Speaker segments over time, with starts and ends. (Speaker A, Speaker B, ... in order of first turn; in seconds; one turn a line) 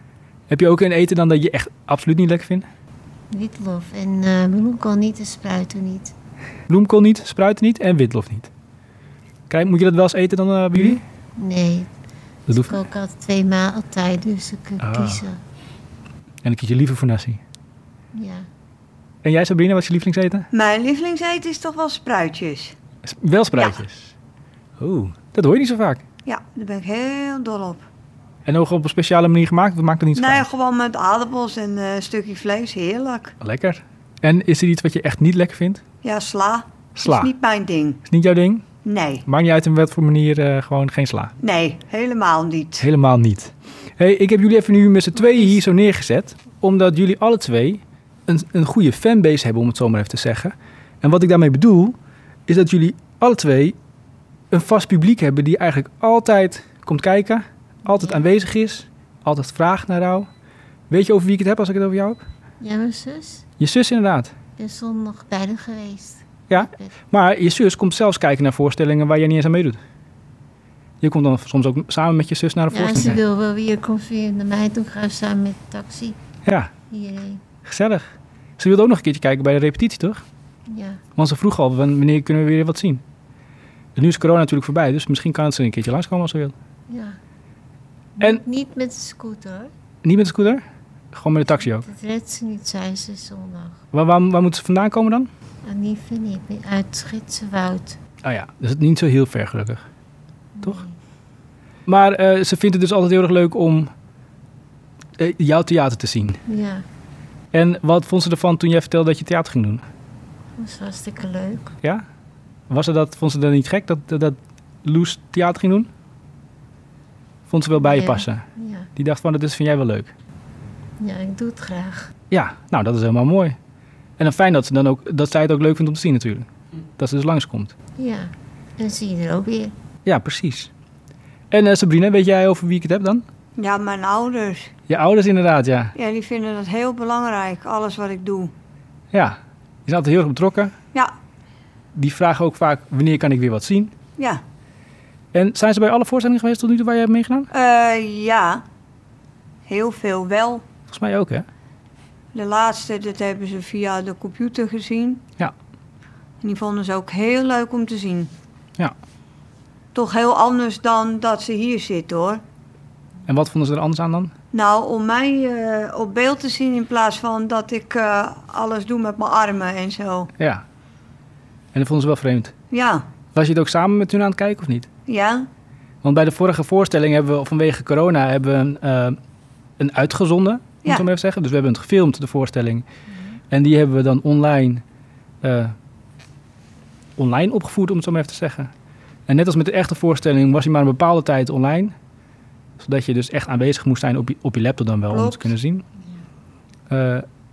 Speaker A: 0.5-2.7
Speaker B: 3.3-6.1
Speaker A: 6.7-8.5
Speaker A: 9.5-11.0
Speaker B: 11.3-11.9
Speaker A: 12.5-12.8
Speaker B: 12.5-15.4
Speaker A: 14.8-15.2
Speaker A: 16.4-17.4
Speaker B: 18.1-18.5
Speaker A: 19.2-20.5
Speaker C: 20.5-22.7
Speaker A: 23.0-24.1
Speaker C: 23.5-23.8
Speaker A: 24.8-26.0
Speaker C: 26.2-27.8
Speaker A: 28.4-30.4
Speaker C: 30.1-33.3
Speaker A: 33.4-35.8
Speaker C: 36.0-38.0
Speaker A: 36.9-37.3
Speaker A: 38.1-38.6
Speaker C: 38.8-39.2
Speaker A: 39.2-41.3
Speaker C: 41.4-42.9
Speaker A: 42.8-52.0
Speaker A: 52.5-53.8
Speaker A: 54.5-60.3
Speaker B: 57.9-58.2
Speaker A: 60.9-62.2
Speaker B: 62.6-63.5
Speaker A: 63.6-64.3
Speaker B: 64.6-66.9
Speaker A: 66.5-69.8
Speaker A: 71.0-73.2
Speaker B: 72.7-76.2
Speaker A: 76.4-76.7
Speaker B: 76.9-77.4
Speaker A: 77.6-80.2
Speaker B: 80.7-81.0
Speaker A: 81.2-83.0
Speaker A: 84.0-86.5
Speaker B: 86.9-87.2
Speaker B: 88.2-89.7
Speaker A: 90.0-91.8
Speaker B: 91.7-93.8
Speaker A: 93.9-95.3
Speaker B: 95.6-98.0
Speaker A: 98.2-99.8
Speaker B: 100.5-100.9
Speaker A: 101.9-103.9
Speaker A: 105.2-106.4
Speaker B: 106.5-106.8
Speaker A: 107.5-109.8
Speaker B: 110.6-111.7
Speaker A: 112.7-115.9
Speaker A: 117.5-118.4
Speaker B: 117.8-118.9
Speaker A: 119.0-120.1
Speaker B: 121.0-122.1
Speaker A: 122.3-123.5
Speaker A: 124.2-127.7
Speaker B: 128.0-129.7
Speaker A: 130.0-130.7
Speaker A: 131.5-133.2
Speaker C: 133.6-134.7
Speaker A: 134.9-135.9
Speaker C: 135.9-138.5
Speaker A: 139.1-140.7
Speaker A: 141.9-143.9
Speaker A: 145.3-147.5
Speaker C: 147.5-148.6
Speaker C: 149.7-150.6
Speaker A: 150.9-151.5
Speaker C: 152.3-155.2
Speaker C: 156.4-158.3
Speaker C: 159.9-162.4
Speaker A: 163.3-164.3
Speaker C: 164.5-170.3
Speaker A: 170.4-170.6
Speaker A: 171.7-172.5
Speaker C: 172.7-173.0
Speaker A: 173.3-174.9
Speaker C: 175.1-175.5
Speaker A: 176.0-179.2
Speaker A: 179.8-182.8
Speaker A: 183.5-184.8
Speaker A: 185.4-185.7
Speaker A: 187.2-188.7
Speaker A: 189.3-191.9
Speaker A: 192.8-195.8
Speaker C: 195.1-195.5
Speaker A: 196.9-197.2